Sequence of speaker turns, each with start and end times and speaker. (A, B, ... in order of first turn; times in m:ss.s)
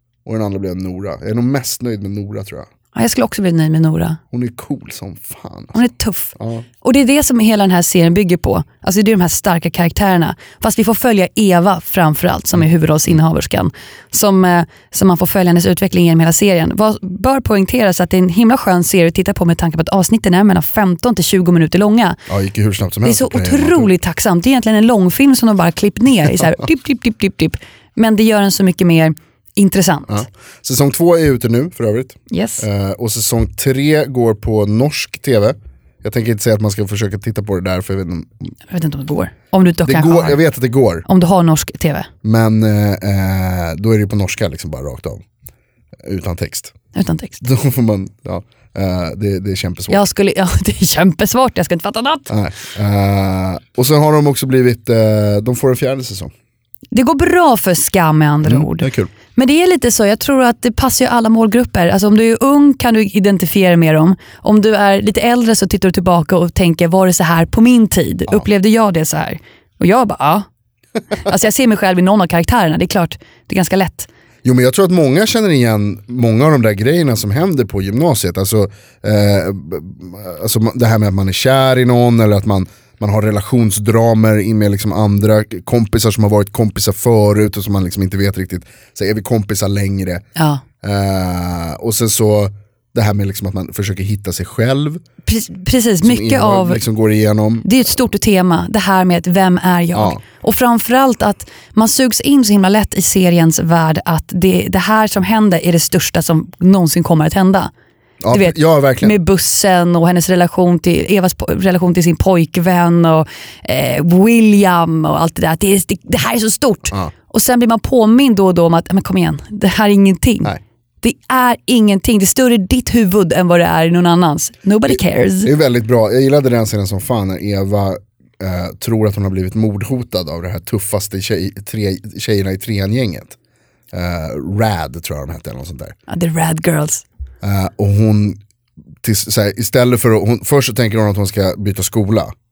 0:00.2-0:02.7 A
0:02.9-0:04.2 B
0:04.3-0:05.8 A
0:05.7-0:22.2 B
0:06.4-0:06.6 A
0:22.3-0:23.9 A
0:23.0-0:30.3 B
0:30.1-0:38.5 A
0:32.3-0:32.7 B
0:38.7-0:40.4 B
0:39.8-0:41.1 A
0:41.1-0:42.1 B
0:42.2-0:45.2 A
0:46.0-0:46.8 A
0:47.0-0:47.4 B
0:47.4-0:50.0 A
0:49.9-0:52.3 B
0:52.3-0:56.3 A
0:56.9-1:10.5 B
0:58.4-0:59.1 A
1:11.2-1:14.1 B
1:14.4-1:30.2 A
1:30.4-1:30.6 B
1:30.8-1:35.0 A
1:35.2-1:36.8 B
1:36.0-1:37.9 A
1:37.6-1:47.7 B
1:40.0-1:40.2 A
1:48.2-1:49.2 A
1:48.3-2:05.5 B
2:04.9-2:13.4 A
2:13.9-2:16.0 A
2:16.1-2:17.0 B
2:17.4-2:18.4 A
2:19.0-2:22.3 A